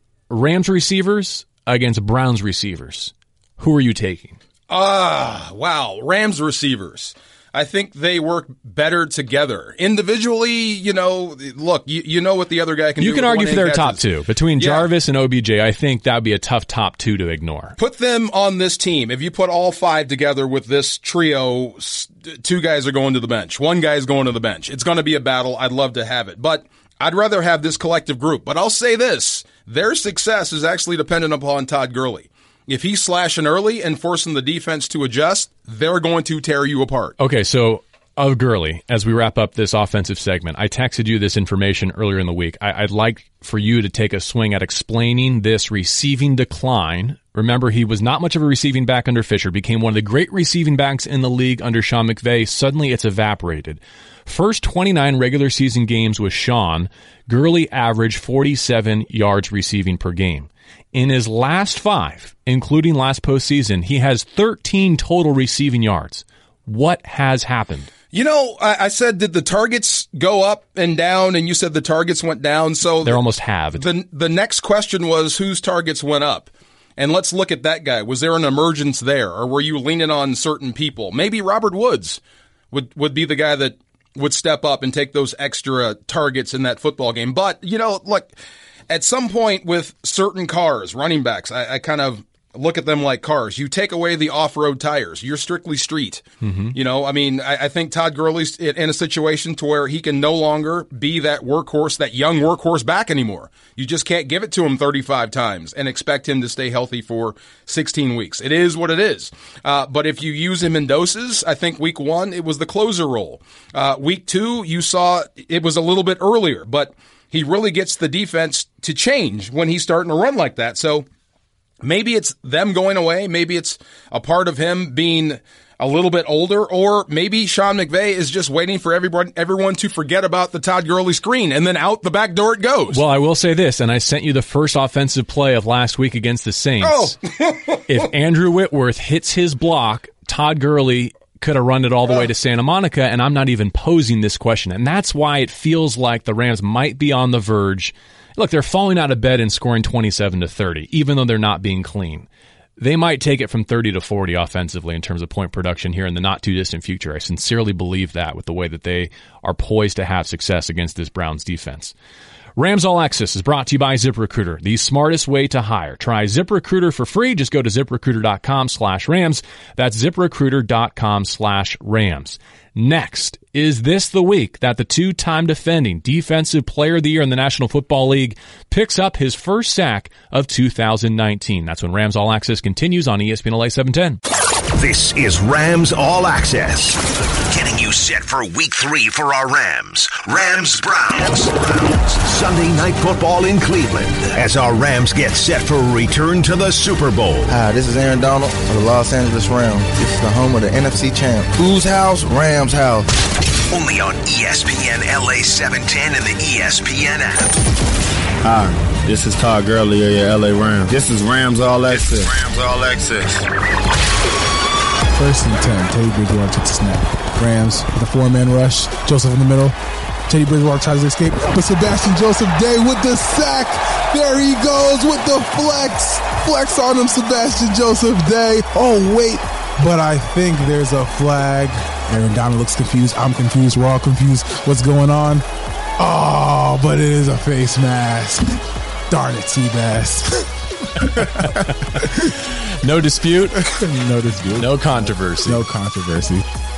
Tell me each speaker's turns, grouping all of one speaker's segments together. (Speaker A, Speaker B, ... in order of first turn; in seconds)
Speaker A: 0.3-4.4, 13.0-17.8, 37.2-67.9, 73.0-73.8, 96.4-96.8, 132.9-137.2, 137.9-152.3, 152.8-161.9, 162.6-184.2, 241.2-241.5, 242.8-243.7, 244.5-245.7
Speaker B: 4.7-14.0, 14.6-14.9, 17.8-37.2, 68.1-73.2, 73.8-82.2, 82.7-88.3, 88.9-121.1, 121.8-133.0, 136.8-138.1
Speaker C: 184.7-197.6, 203.7-207.6
Speaker D: 197.5-203.1
Speaker E: 208.4-213.4
Speaker F: 215.1-219.8, 220.3-235.4, 236.0-242.3, 243.6-246.4